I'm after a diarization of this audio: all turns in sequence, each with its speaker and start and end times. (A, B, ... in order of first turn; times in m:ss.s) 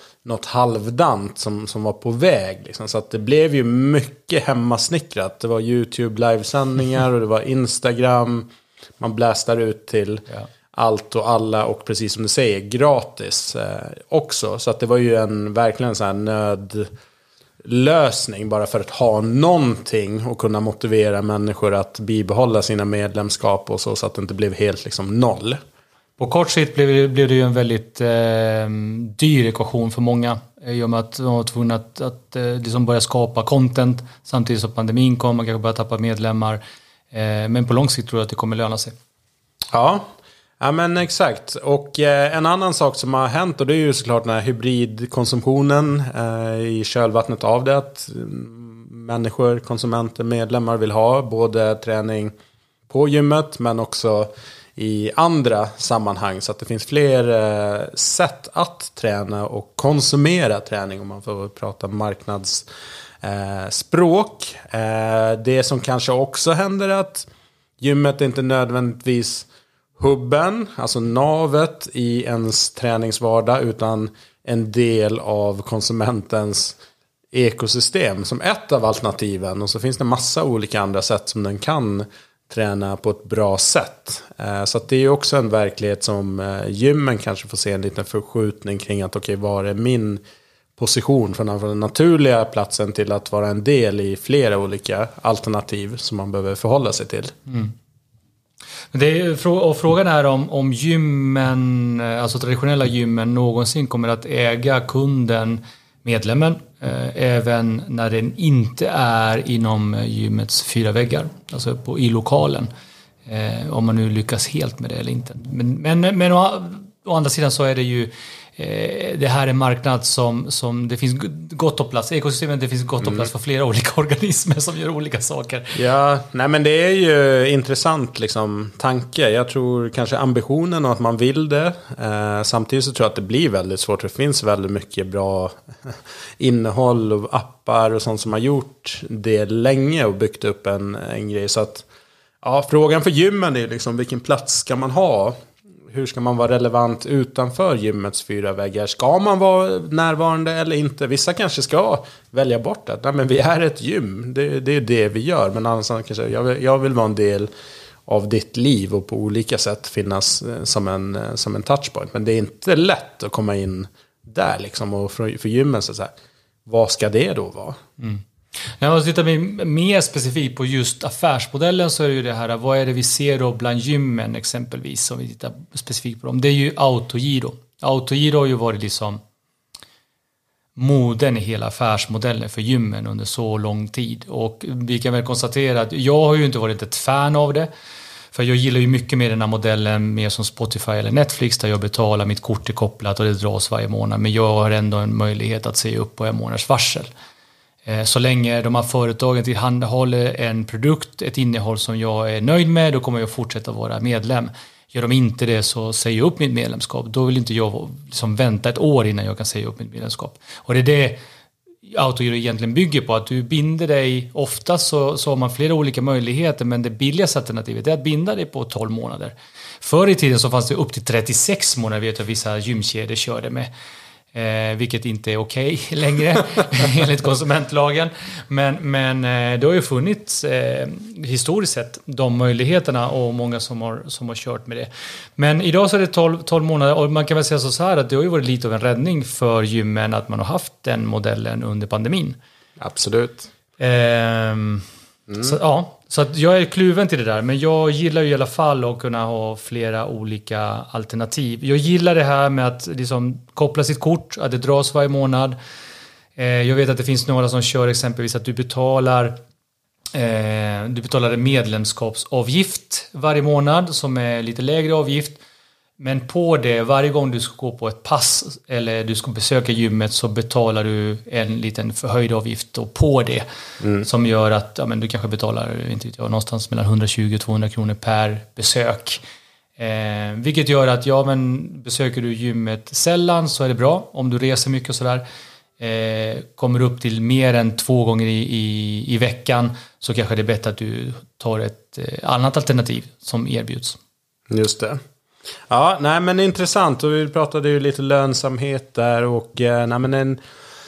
0:00.2-0:16.9 A
0:17.6-0:25.6 A
0:26.2-0:36.6 B
0:37.1-0:39.0 B
0:39.7-0:40.1 A
0:40.6-0:52.3 A
0:52.9-1:02.7 A
1:03.2-1:07.3 A
1:07.8-1:09.5 A
1:10.0-1:16.8 A
1:17.3-1:30.2 A
1:30.8-1:37.3 A
1:37.5-1:37.7 B
1:38.9-1:52.7 B
1:53.3-2:05.8 B
2:05.8-2:21.9 A
2:22.4-2:25.4 A
2:25.9-2:37.5 A
2:38.1-2:46.1 A
2:46.7-2:47.8 A
2:48.8-2:59.2 B
3:00.8-3:07.7 B
3:08.3-3:17.1 B
3:17.9-3:31.2 B
3:31.9-3:43.7 B
3:44.3-4:02.4 B
4:02.8-4:03.5 A
4:03.8-4:04.9 B
4:05.3-4:05.5 A
4:05.4-4:15.6 B
4:16.4-4:19.4 B
4:20.1-4:25.4 B
4:26.0-4:33.4 B
4:33.8-4:34.1 A
4:34.0-4:39.2 B
4:39.8-4:45.2 B
4:45.8-4:54.0 B
4:54.5-4:55.0 A
4:55.7-5:00.4 A